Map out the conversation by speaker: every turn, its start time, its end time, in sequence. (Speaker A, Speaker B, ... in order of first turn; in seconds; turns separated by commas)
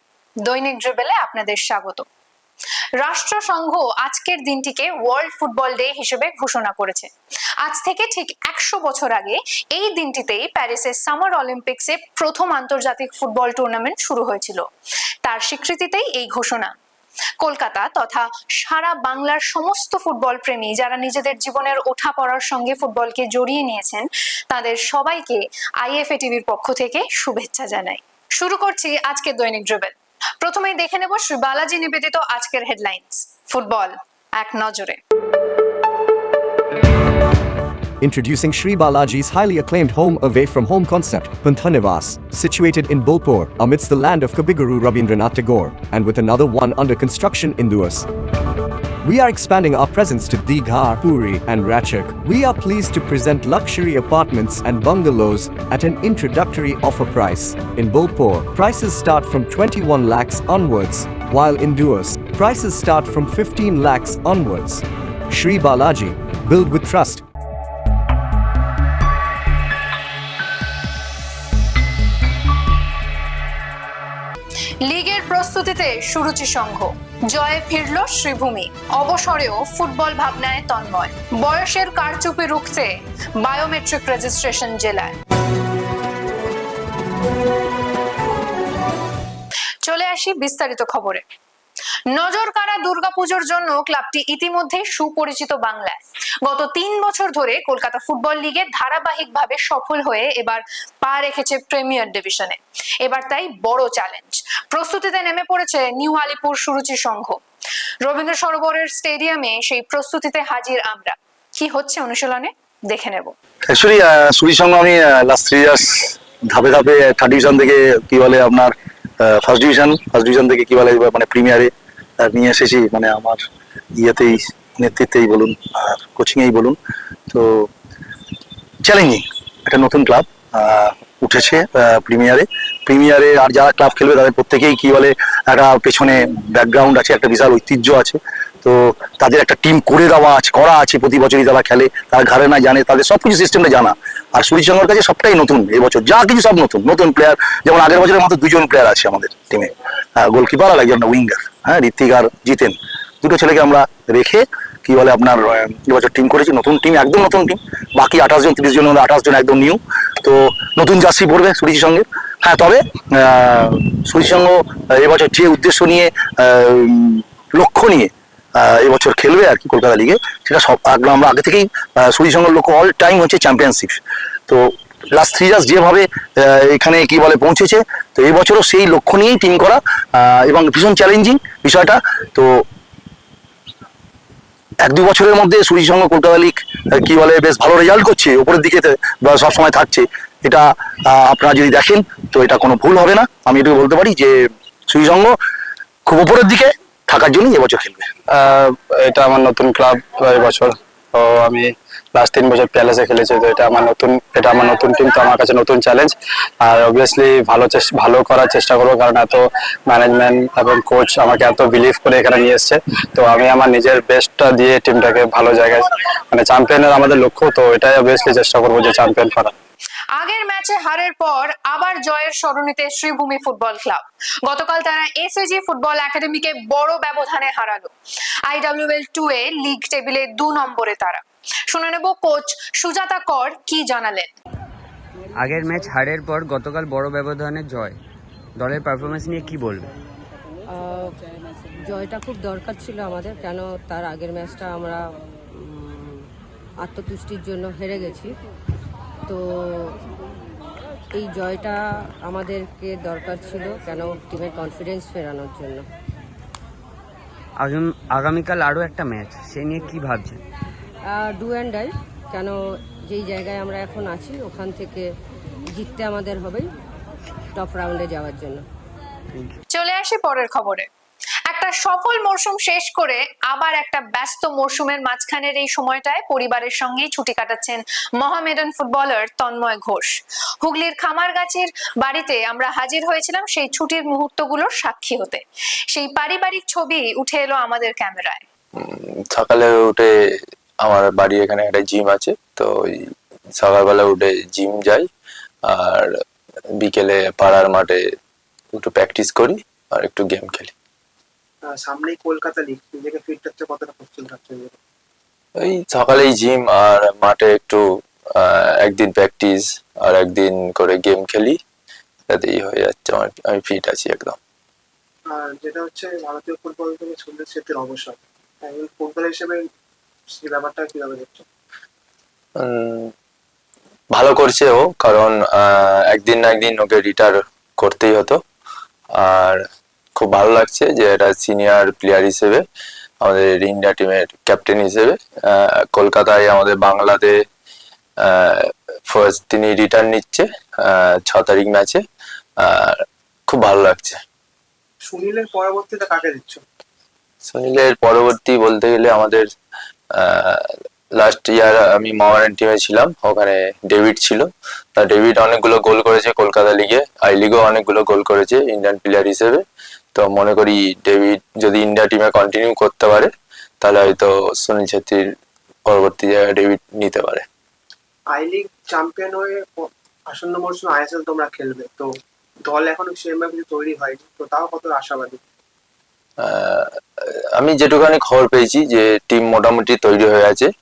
Speaker A: 0.4-2.0, Speaker A: 3.0-7.1, Speaker A: 7.6-14.6, Speaker A: 15.2-16.8, Speaker A: 17.4-35.0, Speaker B: 38.0-48.1, Speaker B: 49.0-67.2, Speaker A: 74.8-85.2, Speaker A: 89.8-91.2, Speaker A: 92.1-107.4, Speaker A: 108.0-113.3, Speaker C: 113.7-123.4, Speaker C: 124.0-126.8, Speaker C: 127.3-127.7, Speaker C: 128.8-182.6, Speaker C: 184.8-195.4, Speaker C: 196.1-198.1, Speaker D: 198.3-219.5, Speaker A: 220.1-227.9, Speaker A: 228.5-234.3, Speaker E: 235.3-238.0, Speaker E: 238.6-239.9, Speaker F: 240.7-241.2, Speaker F: 241.8-246.3, Speaker F: 246.8-248.3, Speaker F: 249.3-250.0, Speaker F: 251.1-255.8, Speaker E: 257.6-260.4, Speaker F: 261.0-265.1, Speaker F: 265.7-266.7, Speaker F: 267.5-268.6, Speaker A: 269.7-270.9, Speaker A: 271.5-288.4, Speaker G: 288.8-290.1, Speaker G: 290.8-295.0, Speaker G: 295.7-296.1, Speaker G: 296.8-298.0, Speaker G: 298.7-300.7, Speaker H: 301.6-304.8, Speaker G: 305.6-307.8, Speaker G: 308.4-311.6, Speaker G: 312.3-314.4, Speaker H: 315.3-319.6, Speaker H: 320.3-321.4, Speaker G: 322.6-323.1, Speaker G: 324.1-328.4, Speaker G: 329.2-329.6, Speaker G: 330.2-332.6, Speaker G: 333.2-337.3, Speaker G: 338.2-342.0, Speaker G: 342.6-344.2, Speaker H: 345.0-346.6, Speaker G: 347.5-349.4, Speaker G: 350.2-359.6, Speaker G: 360.1-365.2, Speaker G: 365.9-367.4, Speaker H: 368.3-372.1, Speaker H: 372.6-375.4, Speaker G: 376.4-376.9, Speaker G: 377.6-380.7